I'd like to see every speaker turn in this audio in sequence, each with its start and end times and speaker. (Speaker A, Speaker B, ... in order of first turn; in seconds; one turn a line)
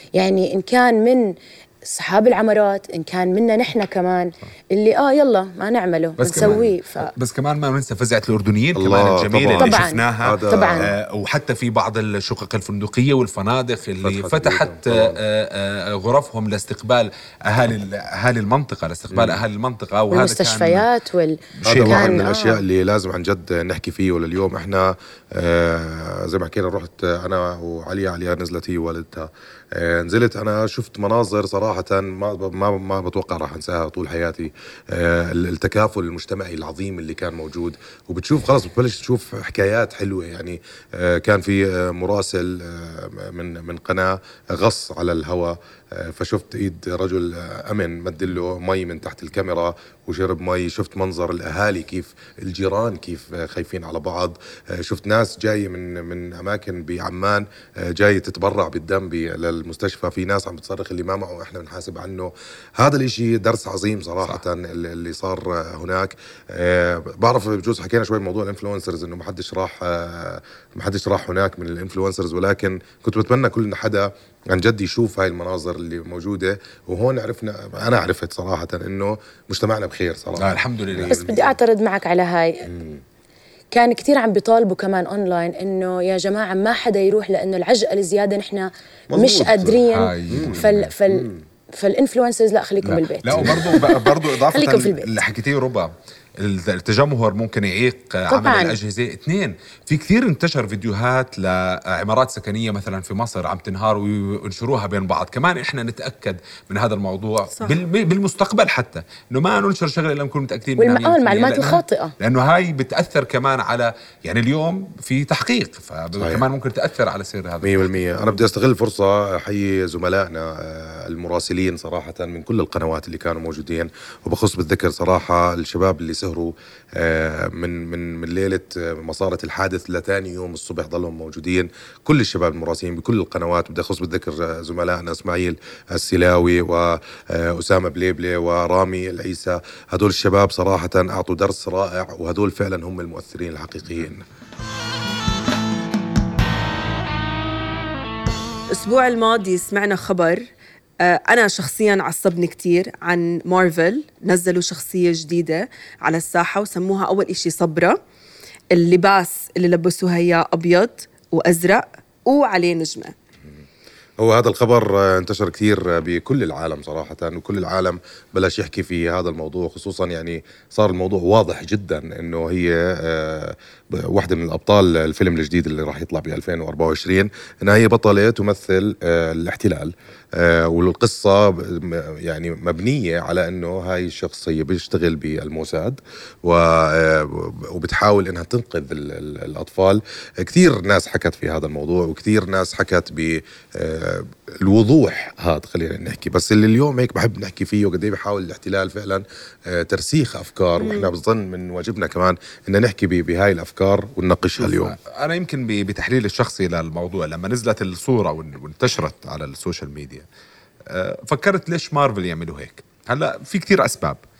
Speaker A: 0.1-7.1
Speaker B: 6.2-20.9
Speaker C: 6.3-6.7
Speaker C: 8.7-10.9
Speaker A: 9.6-10.8
Speaker C: 14.0-15.2
Speaker C: 19.1-19.4
Speaker A: 20.1-22.2
Speaker B: 21.6-22.3
Speaker C: 21.6-81.5
Speaker B: 80.4-81.3
Speaker A: 81.1-82.7
Speaker C: 82.7-83.0
Speaker A: 83.7-95.2
Speaker C: 89.1-91.4
Speaker B: 89.9-90.9
Speaker B: 92.8-117.9
Speaker C: 93.3-93.8
Speaker A: 98.3-98.8
Speaker A: 110.8-112.1
Speaker C: 116.2-116.4
Speaker C: 117.6-144.2
Speaker D: 148.7-150.5
Speaker D: 151.0-158.0
Speaker D: 158.7-163.1
Speaker C: 164.2-204.9
Speaker D: 200.8-201.1
Speaker B: 204.6-210.2
Speaker B: 210.9-214.2